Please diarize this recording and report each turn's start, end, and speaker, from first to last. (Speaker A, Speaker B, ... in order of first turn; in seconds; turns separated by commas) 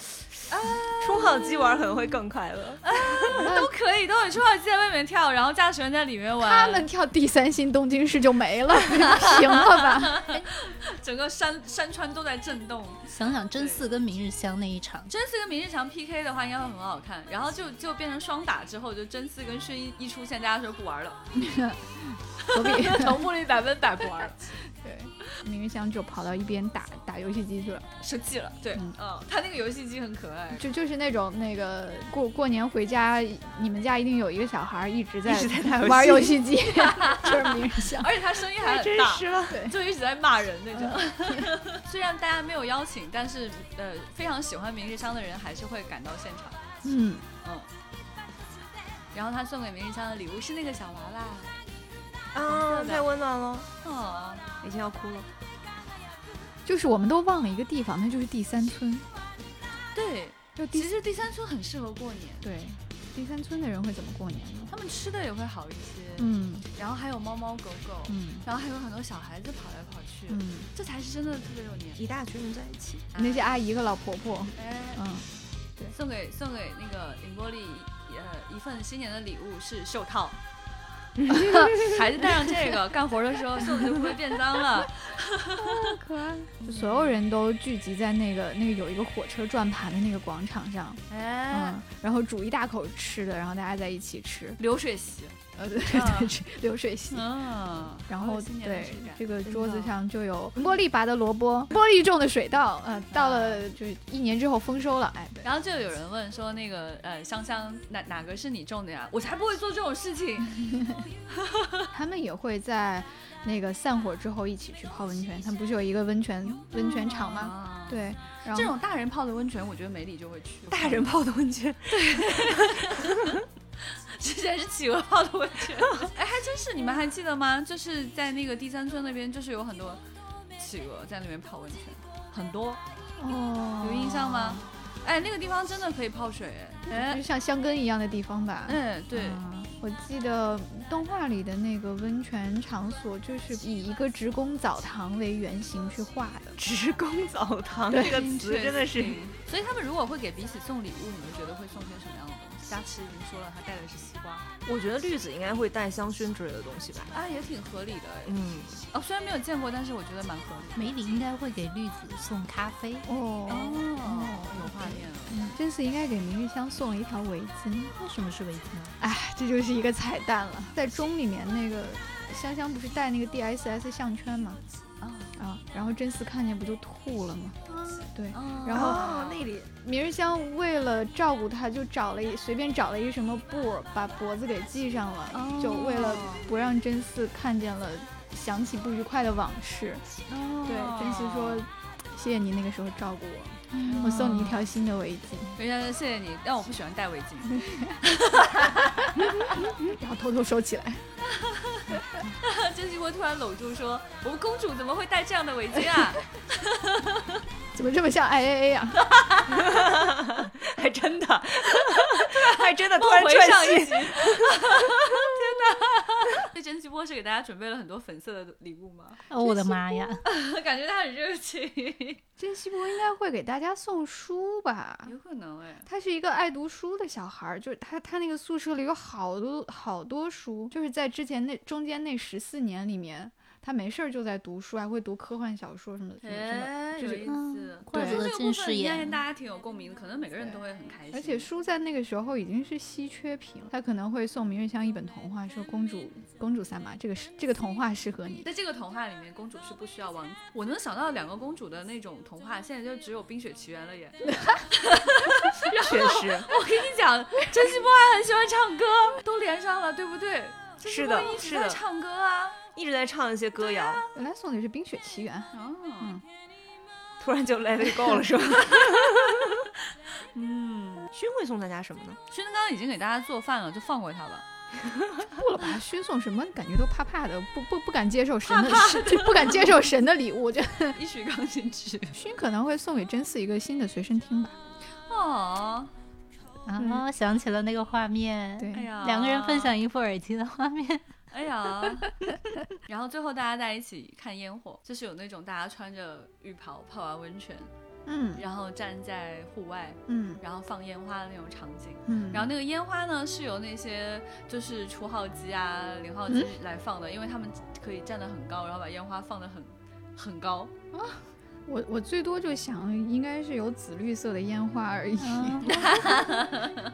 Speaker A: 0.5-1.7, Speaker B: 1.0-2.8, Speaker A: 2.8-6.9, Speaker C: 3.3-3.7, Speaker C: 6.4-10.4, Speaker A: 10.0-13.9, Speaker D: 13.1-15.1, Speaker A: 15.1-21.2, Speaker C: 21.4-23.2, Speaker A: 22.5-24.5, Speaker C: 24.7-27.9, Speaker A: 28.0-30.6, Speaker C: 30.6-38.1, Speaker B: 35.2-36.4, Speaker A: 38.0-46.6, Speaker B: 38.6-39.6, Speaker C: 39.5-39.8, Speaker C: 40.8-41.5, Speaker C: 46.8-47.3, Speaker A: 47.4-47.7, Speaker A: 49.1-51.6, Speaker B: 52.3-53.7, Speaker A: 52.5-53.1, Speaker A: 53.8-54.4, Speaker B: 54.6-55.3, Speaker C: 56.6-59.1, Speaker A: 59.9-62.5, Speaker C: 60.6-60.9, Speaker C: 62.4-64.7, Speaker A: 64.7-72.0, Speaker C: 66.2-66.7, Speaker C: 68.1-68.5, Speaker C: 70.3-70.7, Speaker B: 72.0-73.1, Speaker A: 73.2-73.5, Speaker C: 73.2-75.3, Speaker A: 74.6-75.0, Speaker A: 75.9-80.4, Speaker B: 81.5-81.8, Speaker A: 81.5-85.7, Speaker C: 85.6-94.6, Speaker A: 86.6-87.2, Speaker A: 91.1-91.8, Speaker A: 94.6-95.3, Speaker C: 95.6-97.2, Speaker A: 95.9-96.3, Speaker A: 97.1-99.9, Speaker C: 98.0-105.5, Speaker A: 103.1-103.7, Speaker A: 105.4-110.7, Speaker A: 111.4-111.8, Speaker C: 111.9-118.8, Speaker A: 116.8-121.1, Speaker B: 120.7-122.0, Speaker A: 121.9-123.4, Speaker A: 124.0-130.0, Speaker A: 130.6-132.8, Speaker C: 133.2-134.6, Speaker A: 133.8-137.2, Speaker C: 136.9-146.6, Speaker A: 138.7-139.4, Speaker B: 146.6-149.2, Speaker C: 147.9-148.3, Speaker A: 147.9-154.5, Speaker B: 154.7-157.1, Speaker A: 157.1-158.3, Speaker B: 158.2-158.7, Speaker A: 158.9-161.0, Speaker D: 160.8-163.1, Speaker C: 163.1-167.9, Speaker A: 163.5-165.6, Speaker D: 167.9-168.9, Speaker C: 169.0-174.6, Speaker A: 175.0-175.3, Speaker C: 175.4-177.6, Speaker A: 177.7-179.5, Speaker C: 178.1-190.0, Speaker B: 178.7-179.6, Speaker A: 185.3-186.5, Speaker A: 190.3-191.6, Speaker C: 190.7-195.6, Speaker D: 193.7-194.4, Speaker A: 193.8-194.7, Speaker A: 195.6-199.3, Speaker C: 199.4-201.0, Speaker A: 201.2-207.4, Speaker C: 207.7-209.0, Speaker A: 209.2-209.5, Speaker B: 209.5-214.8, Speaker A: 212.3-222.2, Speaker D: 219.3-220.2, Speaker C: 222.4-225.1, Speaker A: 225.1-225.9, Speaker C: 225.9-237.3, Speaker A: 236.2-241.5, Speaker D: 237.3-239.2, Speaker C: 237.9-238.2, Speaker C: 240.4-248.5, Speaker A: 248.4-262.6, Speaker B: 255.8-256.5, Speaker B: 260.8-261.8, Speaker B: 262.8-264.0, Speaker A: 263.6-264.1, Speaker C: 264.1-266.2, Speaker A: 265.5-266.2, Speaker B: 267.2-269.6, Speaker A: 268.6-269.3, Speaker A: 270.3-271.1, Speaker B: 271.1-272.2, Speaker A: 272.3-274.4, Speaker C: 275.2-281.0, Speaker A: 278.5-279.6, Speaker A: 281.0-282.2, Speaker C: 282.1-284.6, Speaker A: 285.1-285.9, Speaker C: 286.7-287.0, Speaker D: 286.7-291.1, Speaker C: 288.6-288.9, Speaker A: 288.7-289.7, Speaker A: 291.3-292.1, Speaker A: 292.9-297.7, Speaker C: 298.1-298.4, Speaker A: 298.4-310.7, Speaker C: 300.1-300.4, Speaker C: 302.1-302.5, Speaker C: 310.9-316.1, Speaker D: 315.2-315.7, Speaker A: 315.6-316.8